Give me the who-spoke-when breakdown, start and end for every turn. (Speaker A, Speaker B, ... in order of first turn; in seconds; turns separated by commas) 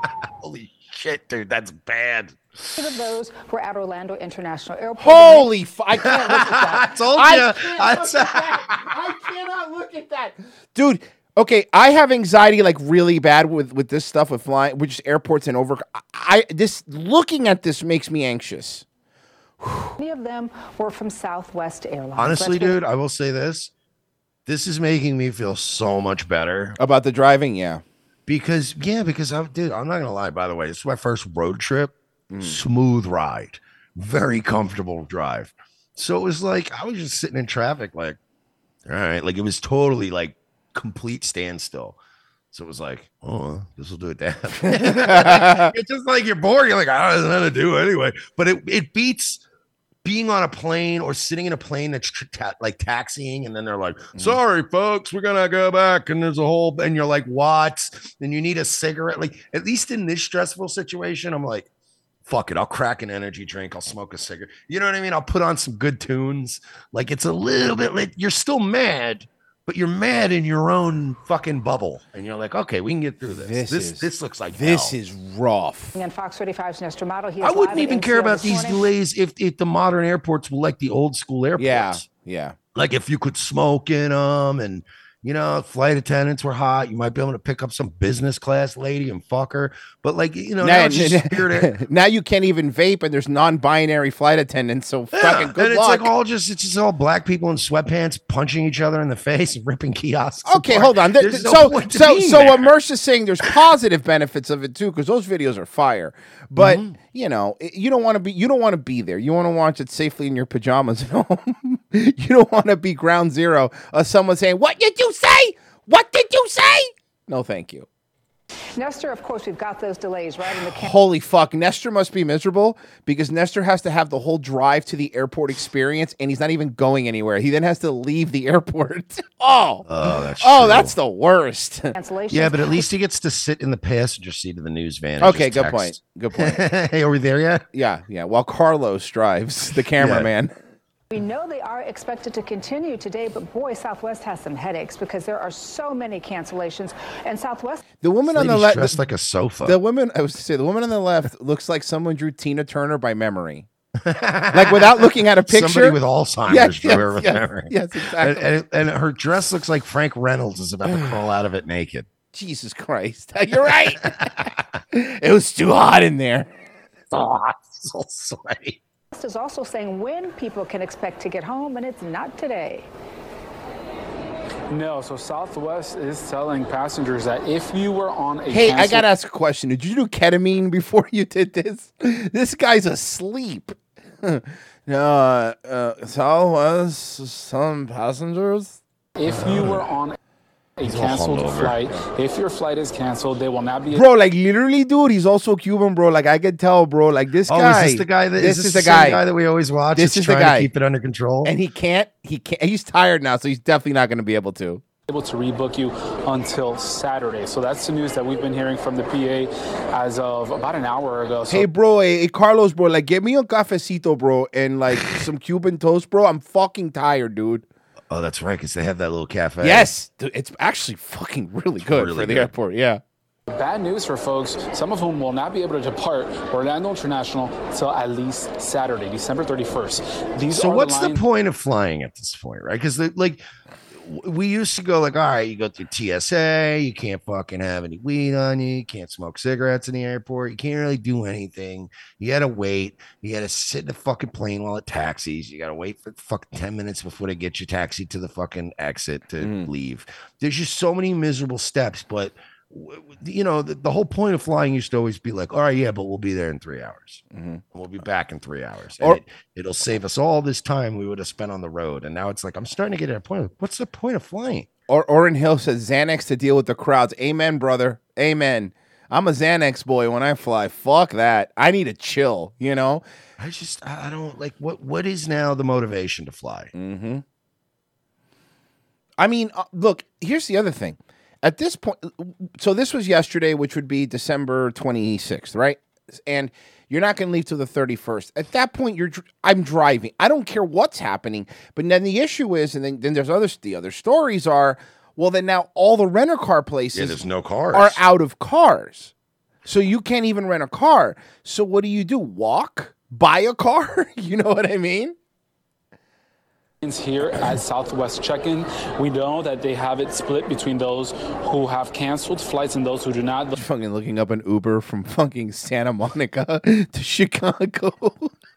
Speaker A: 0.4-2.7, Speaker B: 2.8-5.5, Speaker C: 5.0-18.8, Speaker A: 6.0-8.9, Speaker C: 19.6-19.9, Speaker B: 20.0-22.8, Speaker A: 22.2-23.7, Speaker A: 24.4-26.8, Speaker C: 26.8-27.8, Speaker A: 28.3-38.2, Speaker C: 32.3-32.6, Speaker A: 38.9-42.0, Speaker A: 42.5-49.4, Speaker C: 44.6-45.7, Speaker A: 50.0-61.7, Speaker C: 54.1-54.4, Speaker A: 62.2-74.9, Speaker C: 73.2-75.9, Speaker B: 75.9-78.8, Speaker A: 77.4-82.0, Speaker C: 81.6-82.5, Speaker A: 82.7-91.7, Speaker C: 90.6-96.1, Speaker A: 95.2-102.7, Speaker C: 100.4-117.9, Speaker A: 106.6-106.9, Speaker B: 118.8-120.9, Speaker C: 120.7-131.9, Speaker A: 129.9-130.9, Speaker B: 131.9-132.8, Speaker A: 132.3-137.6, Speaker C: 135.2-136.6, Speaker C: 137.7-140.5, Speaker A: 140.0-140.3, Speaker B: 141.1-147.8, Speaker C: 148.0-149.0, Speaker A: 148.3-149.8, Speaker C: 149.6-153.7, Speaker A: 154.0-162.1, Speaker C: 154.5-158.5, Speaker C: 162.3-164.3, Speaker C: 164.9-166.5, Speaker A: 167.1-168.8, Speaker B: 169.1-172.9, Speaker D: 174.7-179.0, Speaker C: 178.5-188.8, Speaker D: 189.2-190.2, Speaker A: 189.3-189.8, Speaker D: 190.8-194.0, Speaker A: 190.8-191.8, Speaker C: 193.9-199.2, Speaker A: 197.5-201.5, Speaker C: 199.9-200.7, Speaker C: 201.4-204.8, Speaker D: 205.1-211.7, Speaker C: 211.5-217.7, Speaker A: 218.1-219.9, Speaker C: 219.6-223.0, Speaker A: 221.8-222.5, Speaker D: 223.5-231.2, Speaker A: 230.5-233.4, Speaker A: 233.9-264.7, Speaker C: 249.4-249.7, Speaker C: 257.3-257.6, Speaker C: 264.9-273.0, Speaker A: 273.4-276.7, Speaker C: 276.7-277.2, Speaker C: 279.2-297.2, Speaker A: 296.9-298.0, Speaker C: 297.7-299.1, Speaker C: 299.6-305.1, Speaker D: 306.8-313.5, Speaker C: 313.5-318.3